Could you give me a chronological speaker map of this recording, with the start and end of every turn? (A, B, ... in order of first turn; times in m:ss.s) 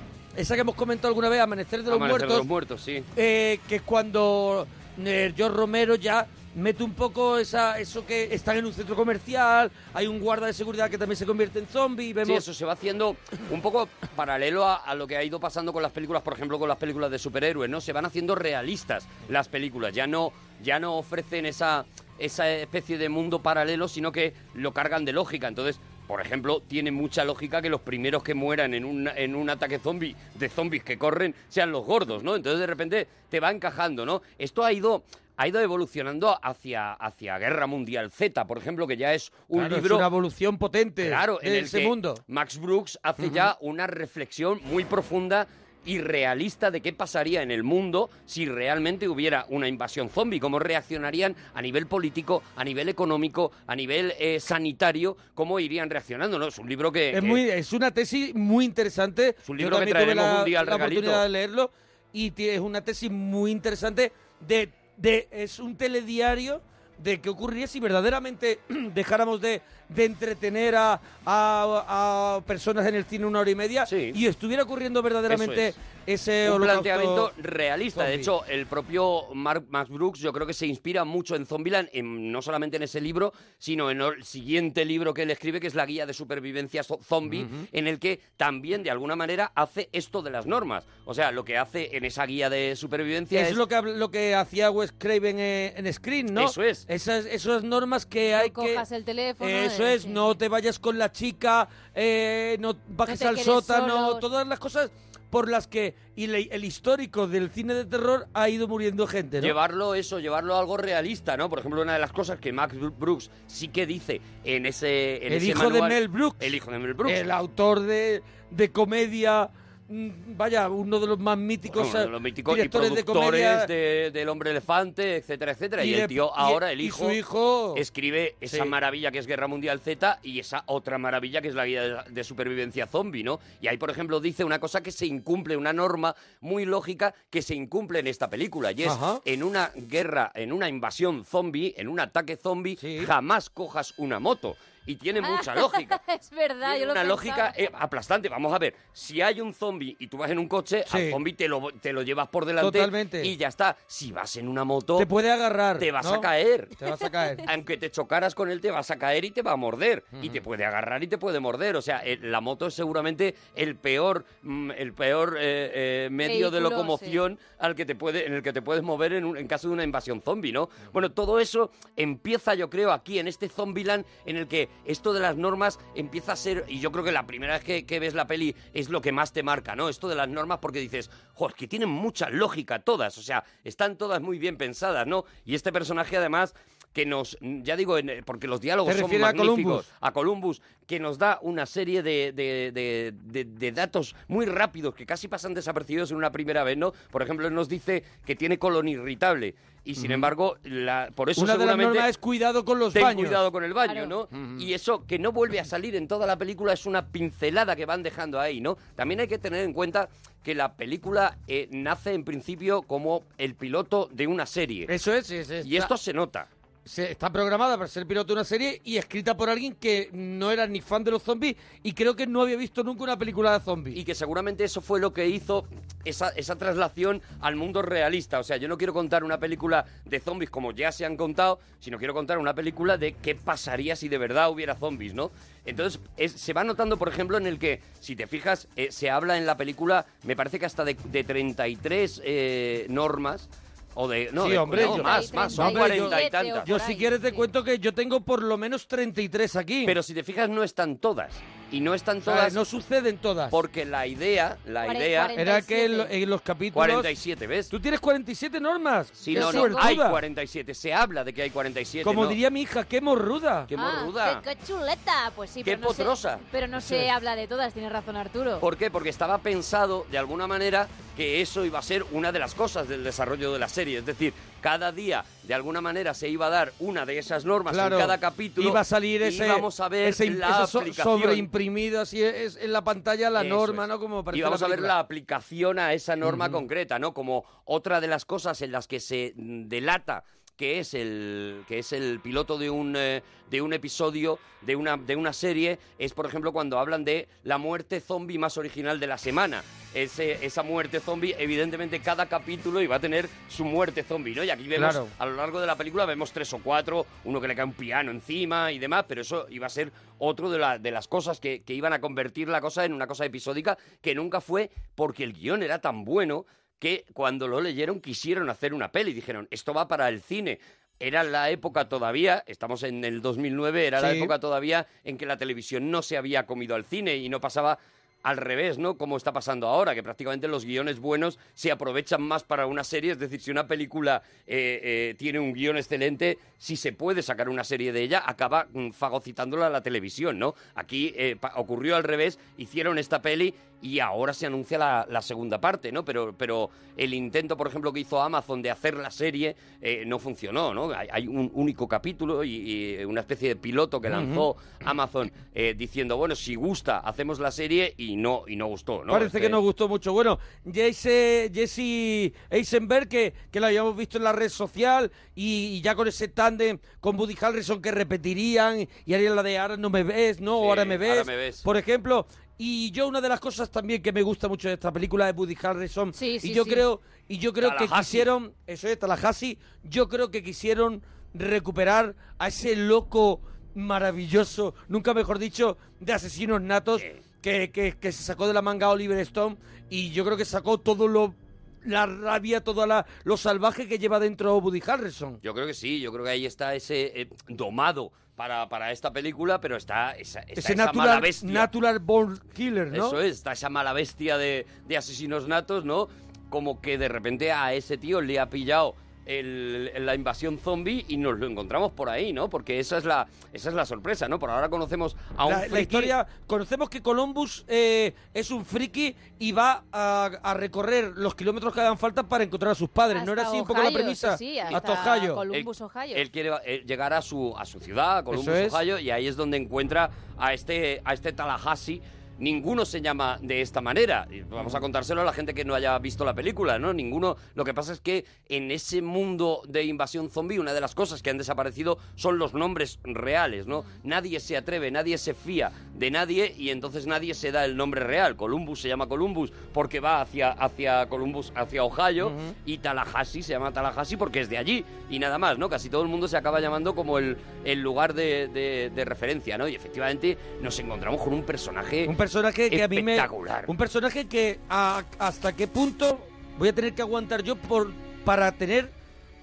0:00.3-0:02.5 A
0:01.9-0:03.1 B
0:03.1-0:12.4 A
0:12.2-0:40.1 B
0:39.5-0:42.2 A
0:41.0-0:57.4 B
0:43.2-0:43.5 A
0:57.1-1:17.3 A
0:59.4-1:01.2 B
1:13.8-1:14.2 B
1:15.3-1:15.7 B
1:16.4-1:33.6 B
1:17.9-1:18.3 A
1:27.3-1:27.6 A
1:33.3-1:38.8 A
1:36.3-1:36.8 B
1:38.3-1:40.3 C
1:39.4-1:49.5 A
1:43.0-1:44.2 C
1:49.4-1:57.2 B
1:55.3-2:03.7 A
2:01.7-2:07.2 B
2:05.8-2:07.8 A
2:07.7-2:26.0 B
2:08.5-2:08.7 A
2:18.8-2:19.2 A
2:22.8-2:23.1 A
2:25.2-2:27.5 C
2:26.6-2:35.1 B
2:30.9-2:31.2 A
2:32.6-2:33.3 A
2:35.0-2:37.5 A
2:35.8-2:36.7 B
2:37.4-3:22.1 B
2:40.1-2:40.4 A
2:46.2-2:47.2 C
3:08.8-3:09.8 A
3:20.0-3:20.3 A
3:21.4-3:23.4 A
3:22.9-3:34.9 B
3:23.8-3:24.1 C
3:24.3-3:24.6 A
3:34.9-3:35.9 A
3:35.6-3:36.5 B
3:36.8-3:44.0 A
3:43.9-4:06.7 B
4:04.4-4:10.0 A
4:04.7-4:07.5 C
4:09.8-4:12.6 B
4:12.2-4:13.6 A
4:13.5-4:15.3 B
4:14.8-4:16.1 C
4:15.4-4:17.1 A
4:16.7-4:17.7 B
4:17.7-4:20.2 A
4:19.1-4:22.4 B
4:19.3-4:19.9 C
4:22.0-4:23.7 A
4:23.7-4:24.4 B
4:23.8-4:28.6 C
4:25.6-4:26.4 B
4:26.8-4:27.1 A
4:28.6-4:41.5 B
4:37.7-4:45.0 A
4:43.3-5:59.6 B
4:46.2-4:46.6 A
5:04.8-5:05.1 A
5:24.0-5:24.3 A
5:54.1-5:54.5 A
5:59.1-6:35.4 A
6:10.6-6:11.6 B
6:16.1-6:16.8 C
6:17.6-6:18.3 B
6:26.9-6:27.2 B
6:35.4-6:41.7 B
6:40.5-6:43.2 A
6:42.9-6:56.1 B
6:55.4-7:05.4 A
7:03.1-7:06.2 C
7:05.5-7:42.1 B
7:08.3-7:08.8 A
7:32.2-7:32.5 A
7:42.0-7:48.9 A
7:42.7-7:43.7 B